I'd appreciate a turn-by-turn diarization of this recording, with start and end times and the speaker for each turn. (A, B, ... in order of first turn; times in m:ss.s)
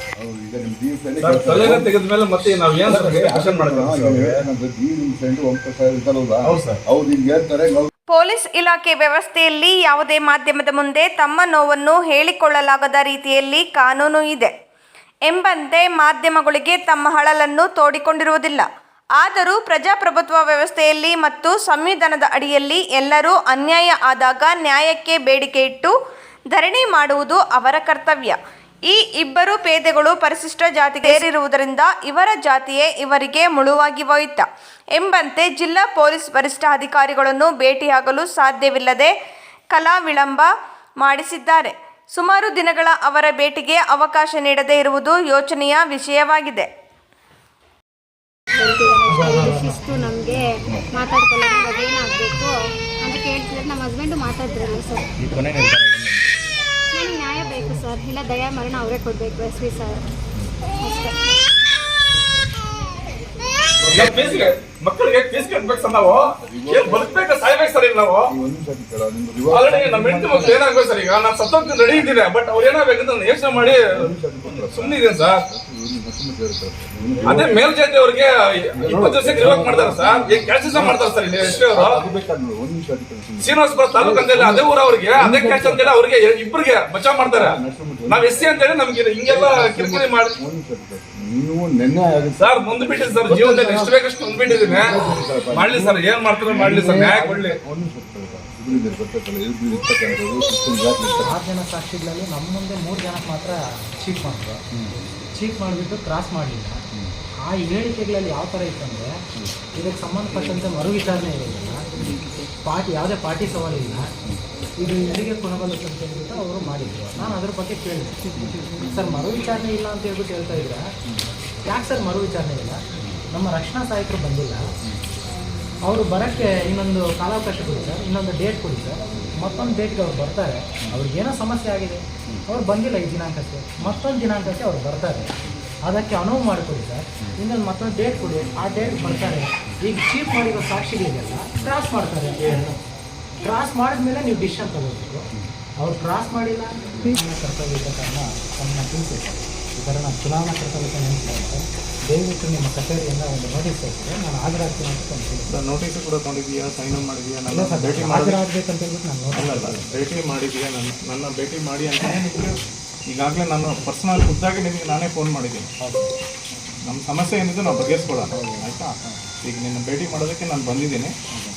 0:00.2-0:01.9 A
0:01.2-0:04.4 B
0:02.8-0:07.9 A
0:06.4-0:06.8 B
0:08.1-0:14.5 C
0:15.3-0:18.7 C
0:19.2-0:25.9 C
0:26.5-0:34.4 C
0:35.0-0:39.1 C
0:39.7-0:40.5 C
0:41.0-0:46.7 C
0:48.6-0:55.1 D
0:49.1-0:50.0 E
0:55.2-0:56.2 A
0:56.9-1:00.0 D
0:57.4-0:57.9 E
1:00.8-1:01.2 D
1:03.8-1:04.5 A
1:03.9-1:08.3 B
1:06.4-1:07.2 A
1:08.3-1:10.6 A
1:09.5-1:15.4 B
1:13.5-1:17.6 A
1:17.2-1:22.0 B
1:18.8-1:25.9 A
1:23.4-1:30.4 B
1:27.3-1:28.3 A
1:29.3-1:33.9 A
1:32.4-1:35.0 B
1:34.5-1:41.3 A
1:35.5-1:37.6 B
1:41.2-1:44.6 E
1:45.4-1:46.8 E
1:47.5-1:49.1 E
1:49.8-1:51.8 E
1:52.6-1:54.1 E
1:54.8-1:58.2 E
1:58.8-2:00.9 E
2:01.7-2:02.8 E
2:03.3-2:04.6 E
2:05.8-2:15.3 E
2:15.9-2:22.8 E
2:23.4-2:25.3 E
2:25.8-2:35.5 E
2:35.5-2:38.4 F
2:37.5-2:40.0 E
2:39.3-2:42.6 F
2:43.1-2:45.7 F
2:45.8-2:46.1 E
2:46.9-2:51.1 F